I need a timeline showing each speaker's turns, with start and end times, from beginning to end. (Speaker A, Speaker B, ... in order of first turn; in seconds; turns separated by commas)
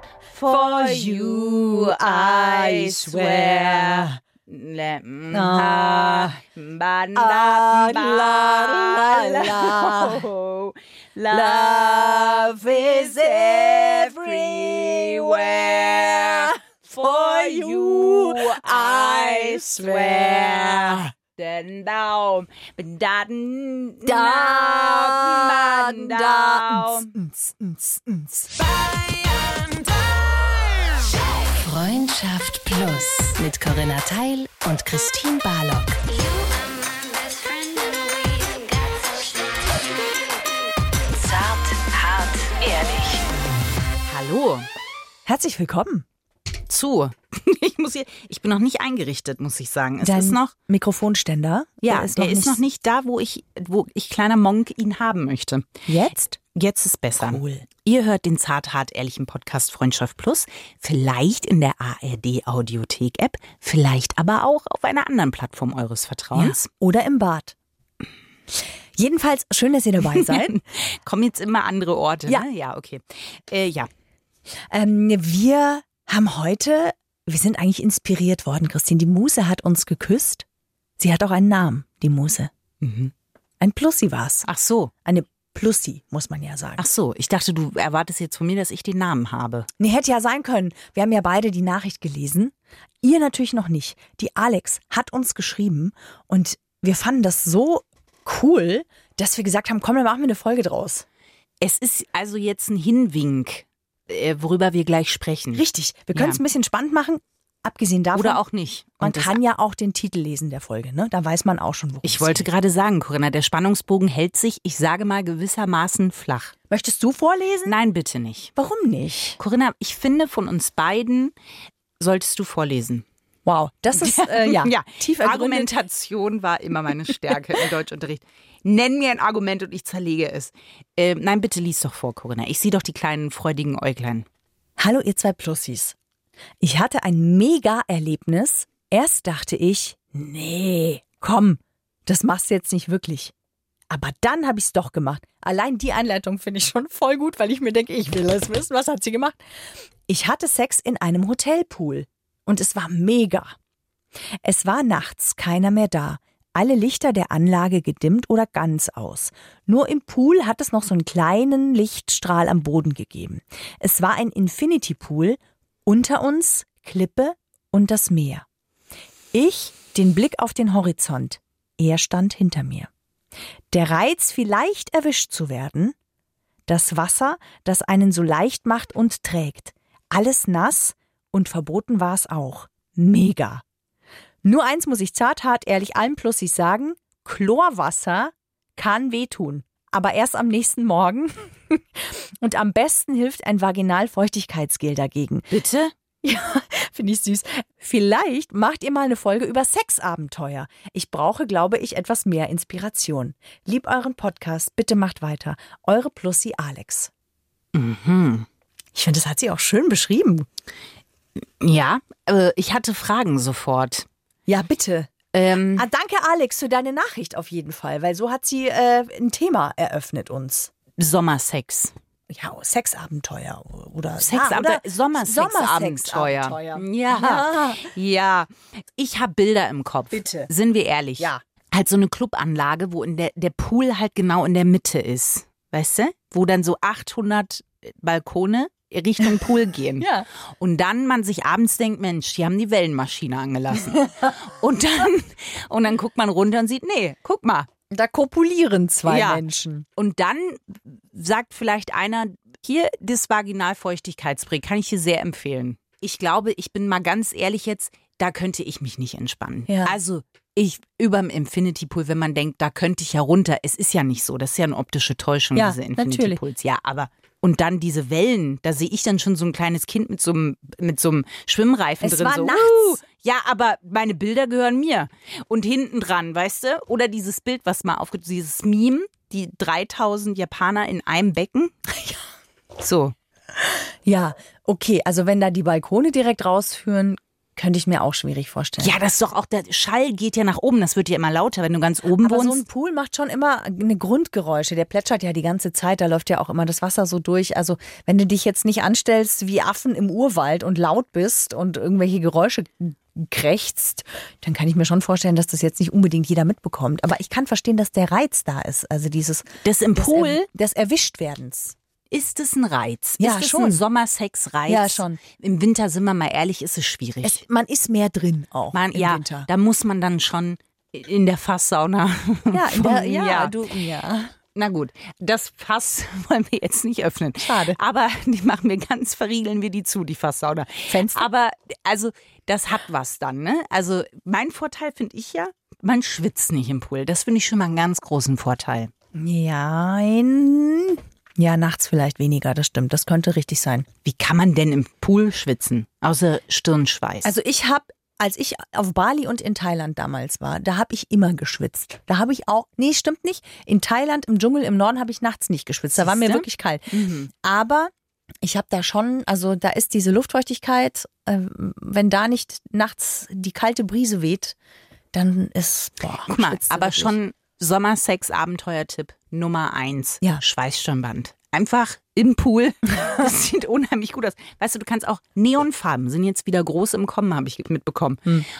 Speaker A: 0.3-27.1, Speaker B: 0.5-4.2, Speaker B: 5.3-6.4, Speaker B: 7.2-10.2, Speaker B: 11.3-15.5, Speaker B: 16.2-21.1, Speaker B: 24.1-28.6, Speaker C: 31.6-36.5, Speaker C: 37.5-39.3, Speaker C: 41.1-43.2, Speaker A: 44.0-44.7, Speaker B: 45.2-46.0, Speaker A: 46.7-50.5, Speaker B: 50.0-52.6, Speaker A: 51.8-55.7, Speaker B: 55.9-56.4, Speaker A: 56.5-66.7, Speaker B: 57.2-57.6, Speaker B: 66.3-67.5, Speaker B: 69.0-70.6, Speaker A: 70.0-73.9, Speaker B: 74.7-80.4, Speaker B: 81.0-82.5, Speaker A: 82.8-83.1, Speaker B: 83.6-84.5, Speaker A: 84.4-84.9, Speaker B: 85.0-86.9, Speaker A: 86.8-89.7, Speaker B: 89.8-101.0, Speaker A: 101.6-106.4, Speaker B: 105.5-108.4, Speaker A: 108.1-109.4, Speaker B: 109.0-112.5, Speaker A: 112.0-116.5, Speaker B: 116.7-117.8, Speaker A: 117.6-118.5, Speaker B: 118.5-119.4, Speaker A: 119.4-121.3, Speaker A: 122.0-123.0, Speaker B: 123.5-125.7, Speaker A: 123.9-134.2, Speaker B: 134.8-135.9, Speaker B: 136.6-143.3, Speaker B: 143.9-149.4, Speaker B: 150.1-153.5, Speaker B: 154.4-168.4, Speaker B: 169.3-172.9, Speaker B: 173.7-175.9, Speaker B: 176.7-183.6, Speaker B: 184.4-195.5, Speaker A: 195.5-195.9, Speaker B: 196.2-207.1, Speaker A: 207.7-208.4, Speaker B: 208.9-210.5, Speaker A: 211.6-214.1, Speaker B: 214.5-215.1, Speaker A: 215.3-215.8, Speaker B: 215.7-220.7, Speaker A: 221.0-221.9, Speaker B: 222.3-227.9, Speaker A: 224.2-240.1, Speaker B: 230.1-230.5, Speaker B: 240.0-240.3, Speaker A: 240.6-247.7, Speaker B: 247.9-249.8, Speaker A: 249.1-249.4, Speaker A: 249.9-281.8, Speaker B: 259.7-259.9, Speaker B: 265.5-266.4, Speaker B: 272.0-273.0, Speaker A: 282.8-283.1, Speaker B: 284.0-289.0, Speaker A: 288.8-292.6, Speaker B: 292.2-311.7, Speaker A: 309.6-310.4, Speaker A: 312.1-317.4, Speaker B: 313.2-313.8, Speaker B: 314.7-315.2, Speaker B: 317.2-319.5, Speaker A: 318.7-323.6, Speaker B: 322.5-324.3, Speaker A: 324.5-338.9, Speaker B: 327.4-327.8, Speaker B: 330.9-331.3, Speaker B: 339.1-343.9, Speaker A: 344.0-347.3, Speaker B: 347.2-364.6, Speaker A: 356.0-357.3, Speaker B: 365.1-367.1, Speaker A: 366.2-378.3